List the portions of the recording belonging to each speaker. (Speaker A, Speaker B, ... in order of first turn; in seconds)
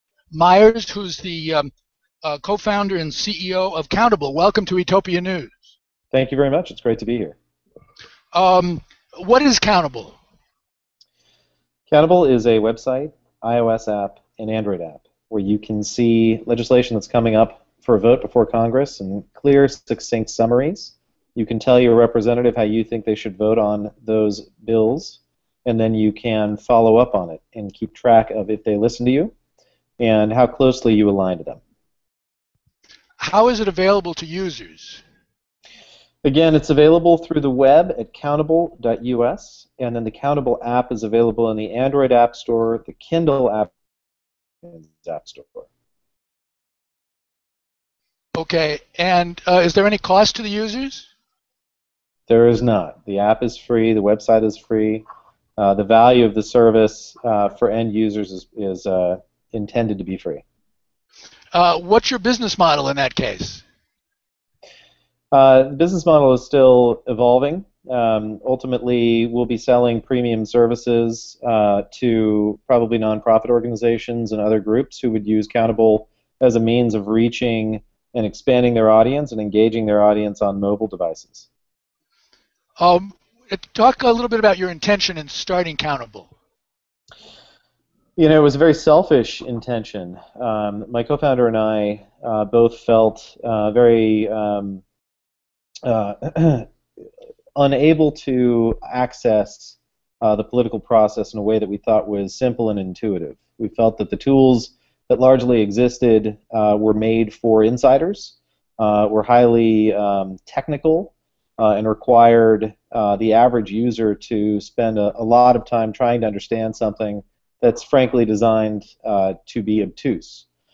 Speaker A: 0.3-1.7, 2.2-5.6, 8.3-10.2, 33.2-35.0, 48.3-51.1, 61.5-63.6, 82.8-86.3
Speaker B: 6.1-7.3, 11.9-29.3, 30.0-31.6, 36.2-43.7, 44.6-45.7, 52.3-55.0, 55.6-60.4, 65.3-81.5, 88.2-94.8, 95.8-96.7, 97.5-120.5